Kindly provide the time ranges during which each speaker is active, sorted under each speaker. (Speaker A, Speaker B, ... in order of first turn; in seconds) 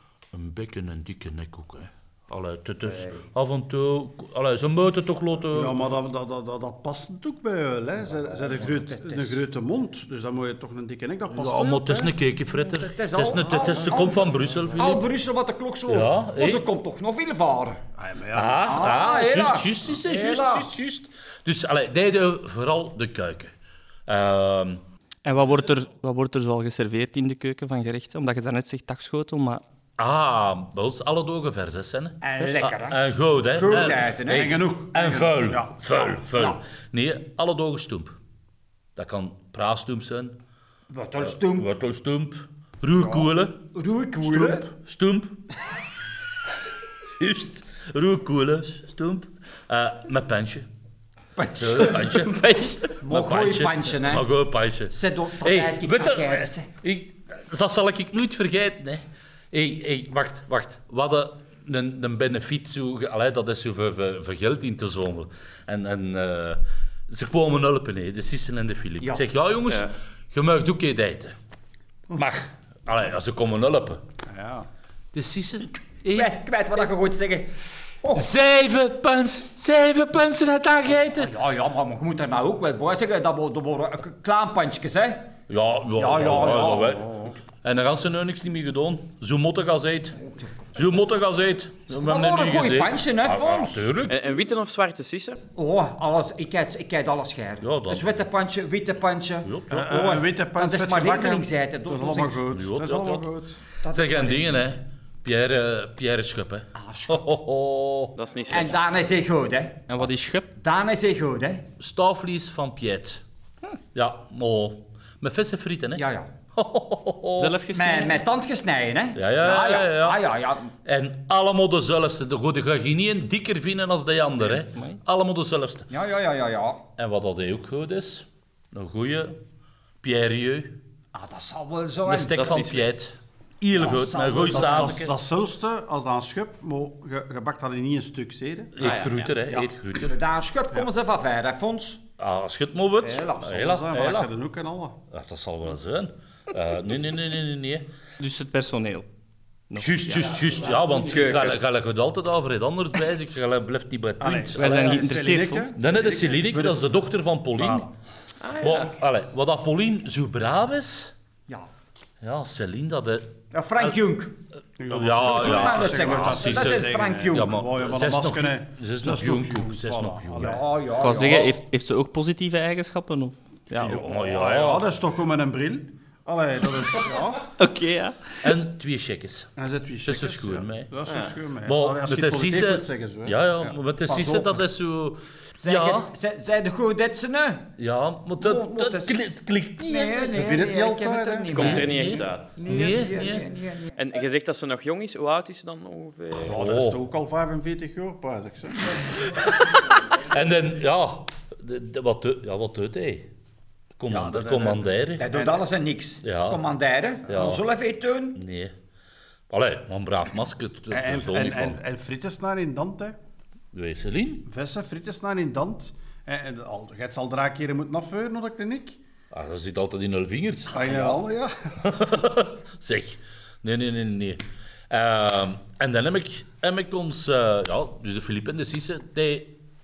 Speaker A: 0.3-5.8, 11.3-15.1, 15.9-16.6, 18.3-23.5, 24.1-24.8, 30.0-38.2, 39.0-40.4, 41.2-43.6, 44.2-45.4, 47.2-50.7, 51.5-52.5, 53.0-71.3, 72.1-74.0, 75.1-76.3, 78.1-81.3, 85.5-90.2, 90.7-94.2, 97.6-98.1, 99.5-99.8, 102.5-103.3, 103.9-108.1, 111.8-113.2, 113.9-117.6, 119.2-120.2, 120.8-125.9, 127.0-129.4, 130.0-130.8, 132.1-135.1, 138.8-140.2, 142.2-144.3, 145.1-147.9, 149.8-155.0, 155.8-157.9, 158.6-161.1, 162.2-163.9, 164.9-170.6, 173.8-174.9, 178.4-179.5, 180.1-180.9, 181.7-186.1, 187.8-190.4, 191.6-193.5, 196.4-197.0, 200.1-203.3, 204.0-205.4, 206.2-206.6, 207.3-207.7, 208.4-208.7, 209.5-211.8, 213.7-214.4, 219.3-221.1, 221.8-229.5
Speaker B: 2.9-3.2, 8.8-9.4, 12.7-14.2, 14.8-17.8, 18.6-20.7, 32.2-34.6, 36.3-36.6, 40.9-41.7, 43.0-44.7, 51.4-54.3, 54.9-56.7, 76.1-77.5, 78.0-78.3, 81.0-85.3, 86.0-87.3, 90.2-90.5, 91.9-93.9, 95.6-102.4, 103.8-104.7, 106.8-107.3, 108.5-109.9, 110.6-111.7, 116.0-116.3, 117.7-120.7, 125.9-126.8, 131.1-132.7, 133.7-135.1, 140.0-142.0, 143.0-143.7, 163.5-164.3, 165.2-167.6, 170.4-171.6, 185.6-187.7, 188.4-189.2, 189.9-193.9, 205.2-208.4, 220.8-221.2
Speaker C: 5.5-12.2, 13.4-14.8, 18.0-19.0, 34.3-35.7, 74.3-74.7, 99.7-103.6, 134.5-139.7, 143.4-145.0, 154.2-157.0, 157.6-157.9, 164.8-170.6, 173.8-177.5, 179.6-184.6, 190.3-191.9, 196.3-199.1, 204.1-205.6, 210.9-213.2, 214.4-219.0, 220.7-221.8
Speaker D: 25.2-29.6, 109.9-110.5, 117.4-118.2, 124.4-125.0, 148.2-149.1, 149.7-150.3, 154.5-155.7, 171.0-174.0, 177.6-178.5
Speaker E: 94.1-95.4, 108.2-108.8, 132.3-132.9, 138.8-139.3, 151.0-151.6, 158.4-158.9, 181.1-181.3, 191.5-192.6, 194.0-196.6